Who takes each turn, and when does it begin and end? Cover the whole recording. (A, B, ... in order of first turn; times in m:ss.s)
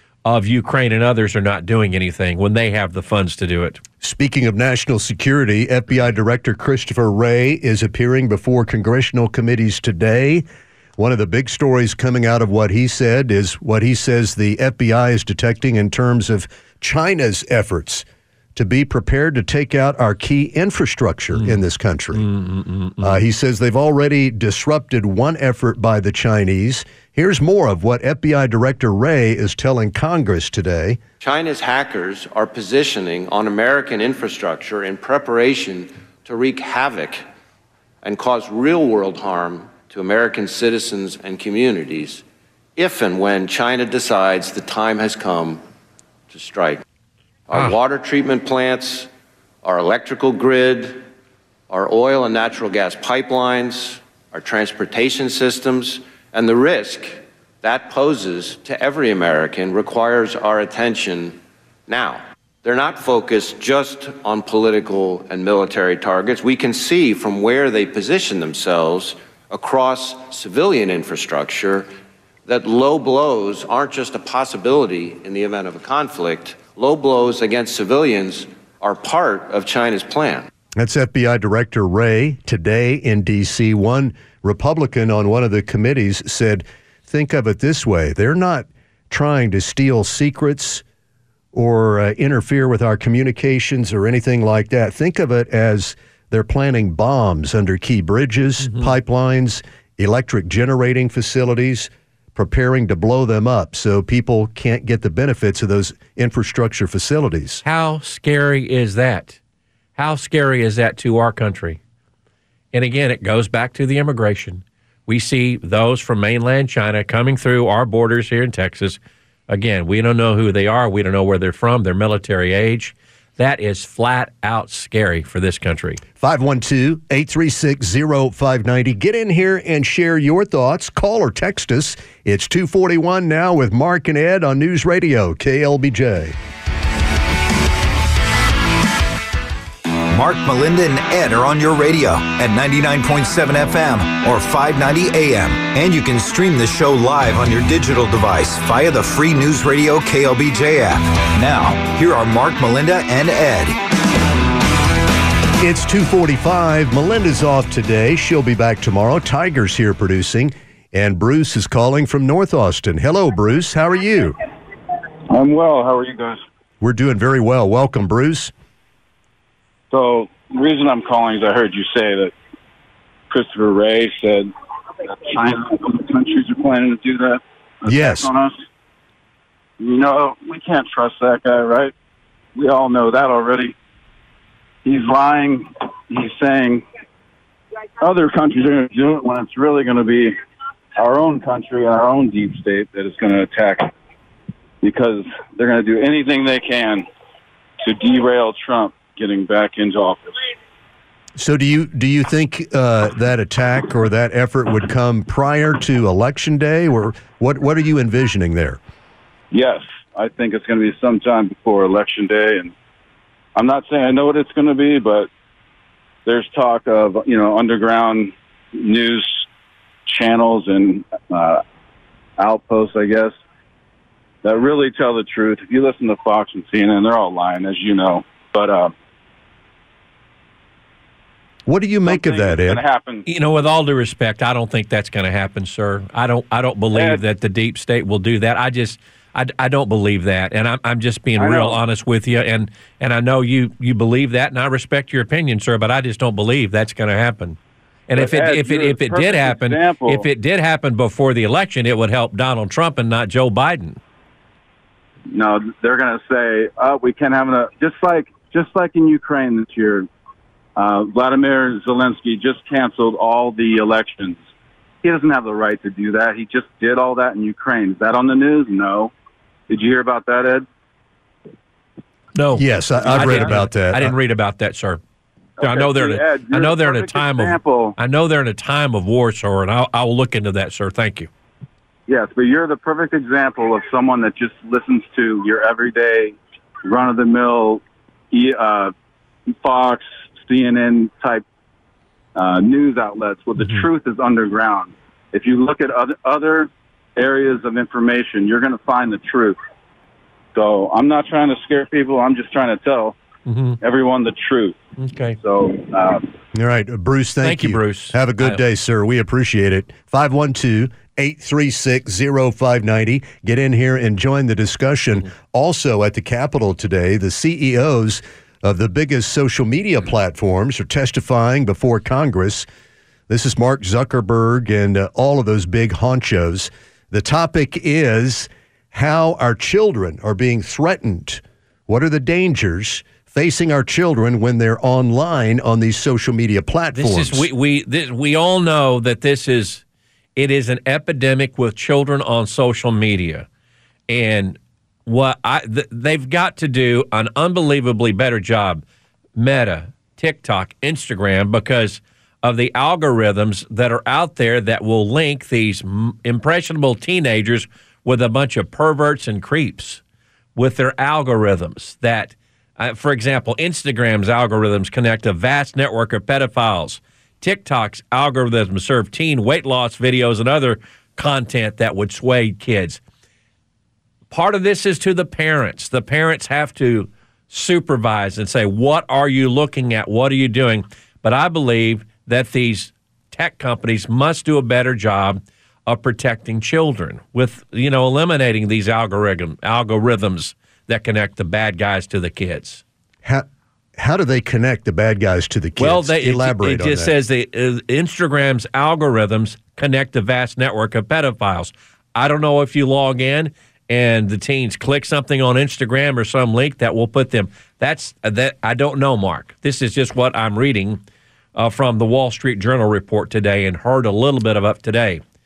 0:00.2-0:03.8 A
0:04.0-0:10.4 B
0:11.0-0:18.0 B
0:18.6-0:22.2 B
0:22.1-0:23.2 A
0:23.0-0:31.0 B
0:31.2-0:37.2 C
0:38.0-0:42.2 C
0:42.8-0:45.6 C
0:46.3-0:46.8 C
0:47.5-0:49.1 C
0:49.6-0:51.0 C
0:51.7-1:11.9 C
1:12.4-1:20.5 C
1:20.8-1:30.8 B
1:31.5-1:47.6 B
1:47.6-1:49.4 A
1:50.0-1:51.8 A
1:52.7-2:06.0 A
2:06.2-2:16.4 B
2:20.1-2:33.8 D
2:35.6-2:44.4 B
2:45.3-2:46.4 E
2:46.8-2:48.5 B
2:49.9-2:52.3 E
2:53.3-2:54.5 E
2:55.0-2:58.5 E
2:57.8-2:58.3 B
2:59.8-3:01.9 E
3:02.6-3:03.7 E
3:04.8-3:06.8 E
3:08.0-3:10.3 E
3:11.0-3:13.9 E
3:14.8-3:17.1 E
3:17.8-3:20.5 E
3:21.4-3:28.8 B
3:29.5-3:32.7 E
3:33.5-3:35.3 E
3:36.2-3:39.4 E
3:40.0-3:41.6 E
3:42.4-3:43.3 E
3:44.4-3:48.9 E
3:51.6-3:52.8 B
3:52.0-3:53.2 E
3:53.2-4:14.0 A
3:56.9-3:57.2 E
4:01.4-4:01.8 E
4:08.1-4:10.2 E
4:15.3-4:20.1 E
4:20.8-4:24.4 E
4:25.0-4:29.1 E
4:29.7-4:30.6 E
4:32.3-4:35.0 A
4:32.5-4:34.1 B
4:35.6-4:37.9 E
4:35.6-4:41.3 A
4:42.1-4:48.9 E
4:49.6-4:51.4 E
4:52.4-4:59.6 E
5:00.5-5:03.1 E
5:03.5-5:03.8 A
5:03.8-5:04.8 E
5:05.0-5:05.4 A
5:05.4-5:06.3 E
5:06.5-5:22.6 B
5:07.4-5:08.6 A
5:23.3-5:37.5 B
5:36.9-5:39.8 A
5:40.4-5:43.5 A
5:44.1-5:48.8 A
5:49.4-6:00.0 A
6:00.5-6:13.0 A
6:14.3-6:32.8 A
6:34.0-6:37.1 B
6:35.8-6:51.0 A
6:51.5-6:55.2 A